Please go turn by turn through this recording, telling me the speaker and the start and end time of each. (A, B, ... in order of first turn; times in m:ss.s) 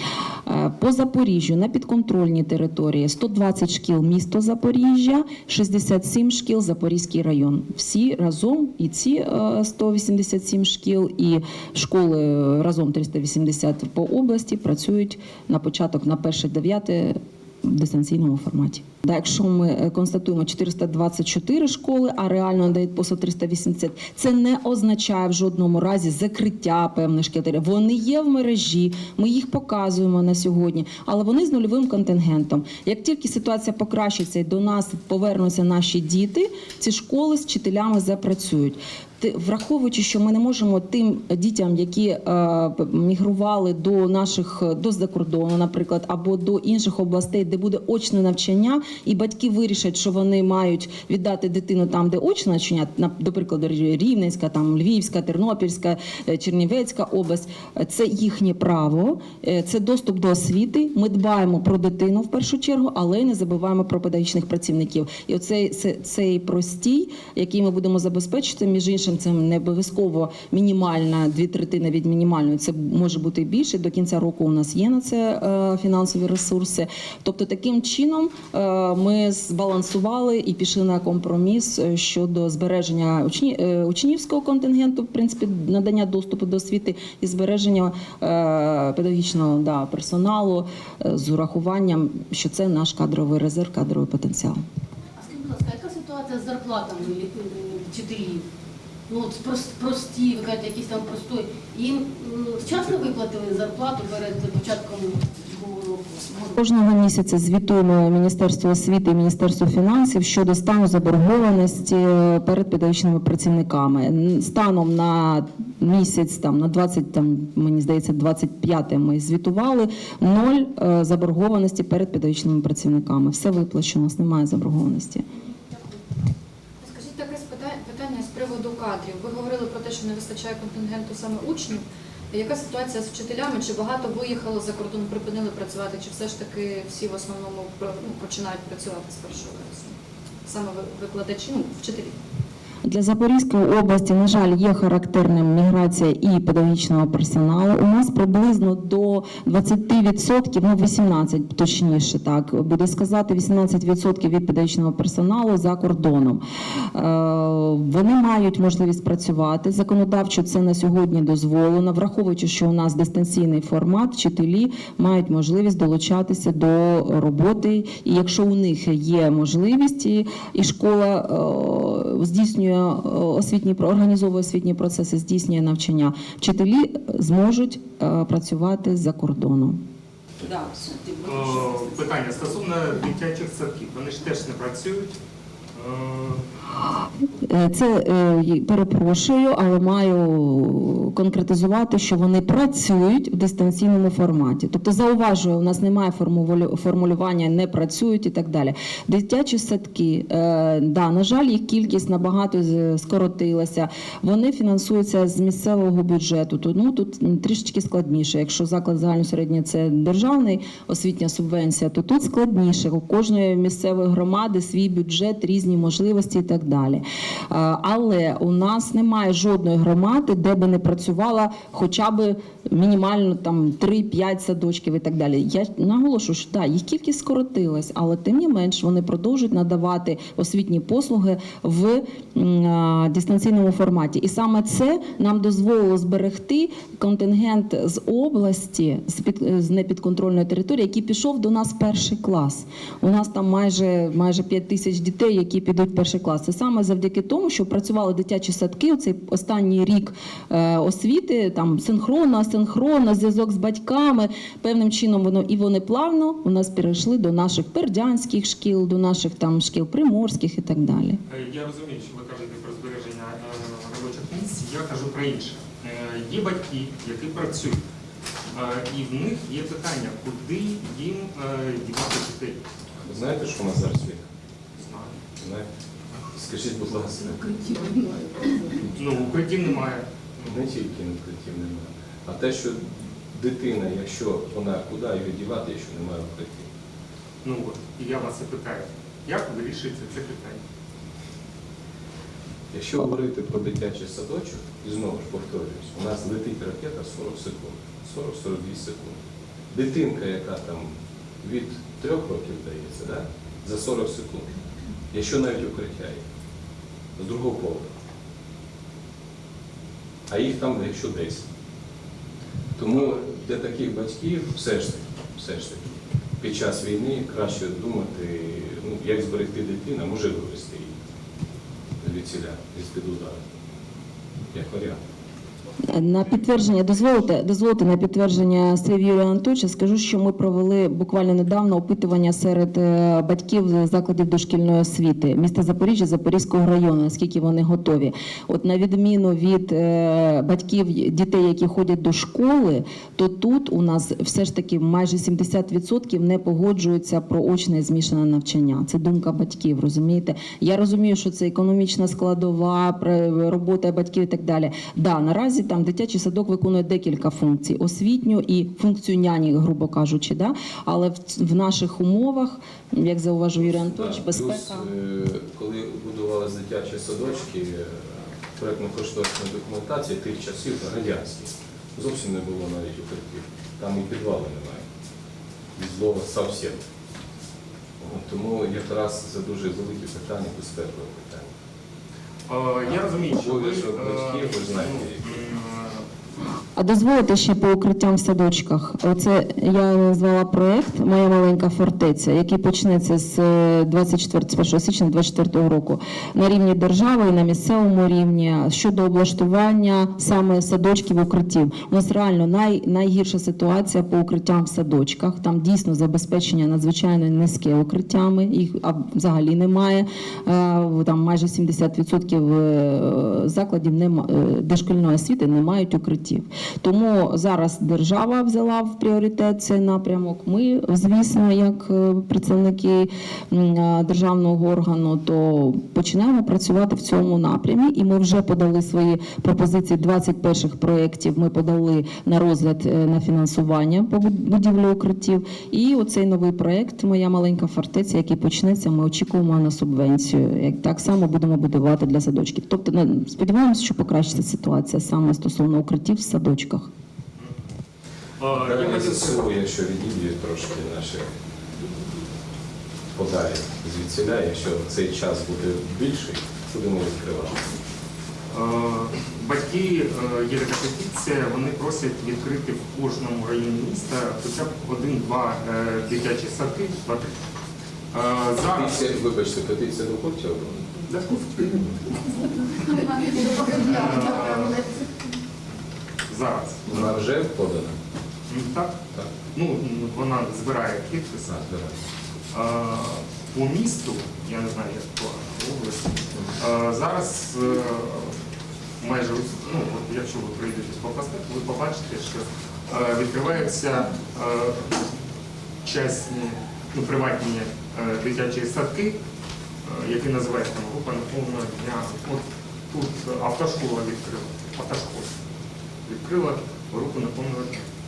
0:00.4-1:34.6 A
1:35.2-1:38.4 B
1:39.1-1:46.6 B
1:46.6-2:05.2 A
2:06.8-2:19.9 C
2:20.4-2:22.2 C
2:22.8-2:59.8 A
3:00.4-3:03.1 C
3:01.2-3:05.1 D
3:05.7-3:06.4 D
3:07.4-4:21.2 A
4:21.3-4:27.8 D
4:28.5-4:32.6 D
4:33.0-4:34.2 E
4:34.8-4:35.2 D
4:35.4-4:35.7 E
4:36.3-4:37.8 E
4:37.6-4:38.6 B
4:39.0-4:40.6 D
4:40.4-4:46.7 E
4:47.4-4:50.6 D
4:52.7-4:59.2 E
4:59.7-5:04.5 E
5:05.1-5:06.2 E
5:07.2-5:07.9 E
5:10.3-5:11.4 E
5:12.8-5:20.9 E
5:22.0-5:23.4 E
5:24.5-5:25.0 E
5:25.8-6:04.8 A
6:03.8-6:14.8 E
6:15.8-6:16.8 E
6:18.0-6:21.5 E
6:22.5-6:26.1 D
6:22.8-6:25.4 E
6:26.8-7:26.9 A
7:28.4-7:29.2 D
7:28.5-7:31.3 E
7:33.1-7:37.7 E
7:38.5-7:47.3 D
7:48.1-7:49.0 D
7:48.6-7:51.1 E
7:51.1-7:51.7 D
7:52.7-7:55.0 B
7:53.6-7:54.3 C
7:54.0-7:54.6 D
7:56.3-7:57.1 D
7:56.8-7:58.0 E
7:58.5-7:59.0 D
7:59.5-8:01.4 D
8:01.4-8:02.0 E
8:02.5-8:08.4 D
8:09.0-8:14.9 D
8:15.8-8:19.2 D
8:19.8-8:25.3 D
8:26.0-8:27.8 D